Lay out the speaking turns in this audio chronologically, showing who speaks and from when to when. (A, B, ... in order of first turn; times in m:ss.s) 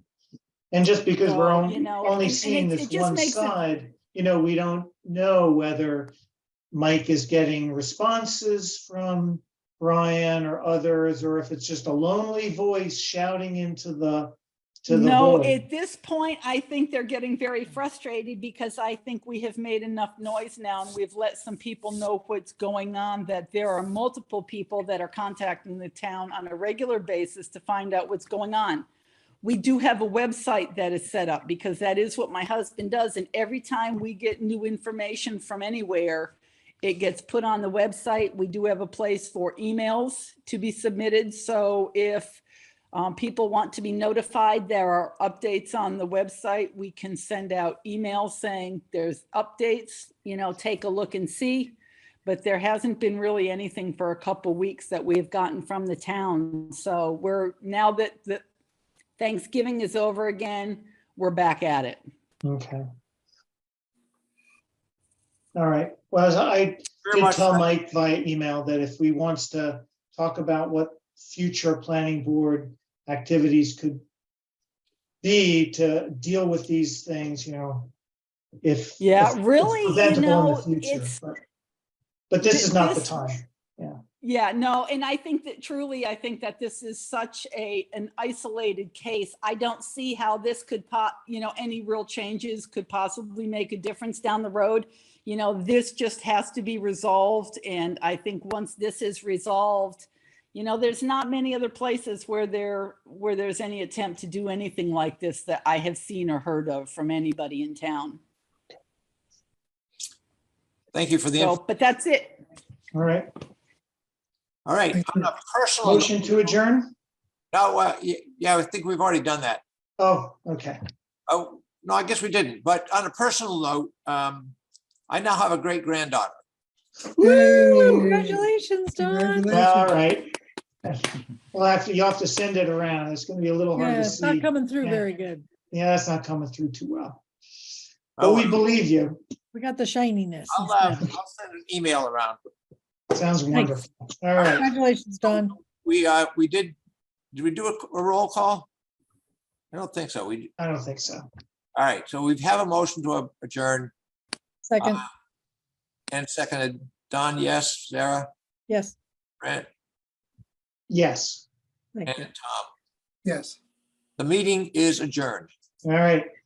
0:00.7-0:06.1 A
0:01.2-0:03.6 B
0:06.7-0:15.6 A
0:14.9-0:28.9 B
0:29.4-0:42.4 B
0:42.9-0:58.4 B
0:59.2-1:02.0 B
1:02.4-1:02.8 A
1:05.5-1:14.0 A
1:07.0-1:07.6 C
1:15.2-1:17.9 A
1:18.6-1:21.4 A
1:19.0-1:21.1 B
1:22.3-1:24.0 A
1:22.4-1:23.2 B
1:24.2-1:48.2 B
1:50.9-1:51.6 C
1:51.3-1:52.4 B
1:52.9-1:53.3 A
1:54.6-1:56.2 C
1:54.9-1:55.3 D
1:55.8-1:56.9 A
1:57.5-1:59.6 C
2:00.0-2:00.8 A
2:01.3-2:04.5 C
2:05.1-2:06.4 C
2:07.2-2:08.4 D
2:07.2-2:08.4 A
2:07.2-2:09.6 E
2:09.0-2:10.1 D
2:09.5-2:10.3 A
2:10.8-2:15.0 A
2:13.8-2:15.4 E
2:15.7-2:17.2 A
2:18.2-2:18.6 C
2:18.2-2:19.2 A
2:19.5-2:21.0 E
2:20.5-2:22.4 C
2:23.1-2:24.7 A
2:23.5-2:23.8 E
2:24.4-2:25.6 E
2:25.2-2:26.7 C
2:27.3-2:28.7 C
2:29.7-2:30.5 C
2:30.6-2:31.3 A
2:31.7-2:33.9 C
2:34.6-2:35.0 E
2:34.8-2:35.0 C
2:36.1-2:38.3 C
2:38.7-2:39.0 E
2:39.4-2:39.7 C
2:40.9-2:41.4 A
2:41.9-2:42.3 E
2:42.0-2:42.7 C
2:43.2-2:43.6 D
2:44.2-2:45.5 C
2:45.8-2:46.3 A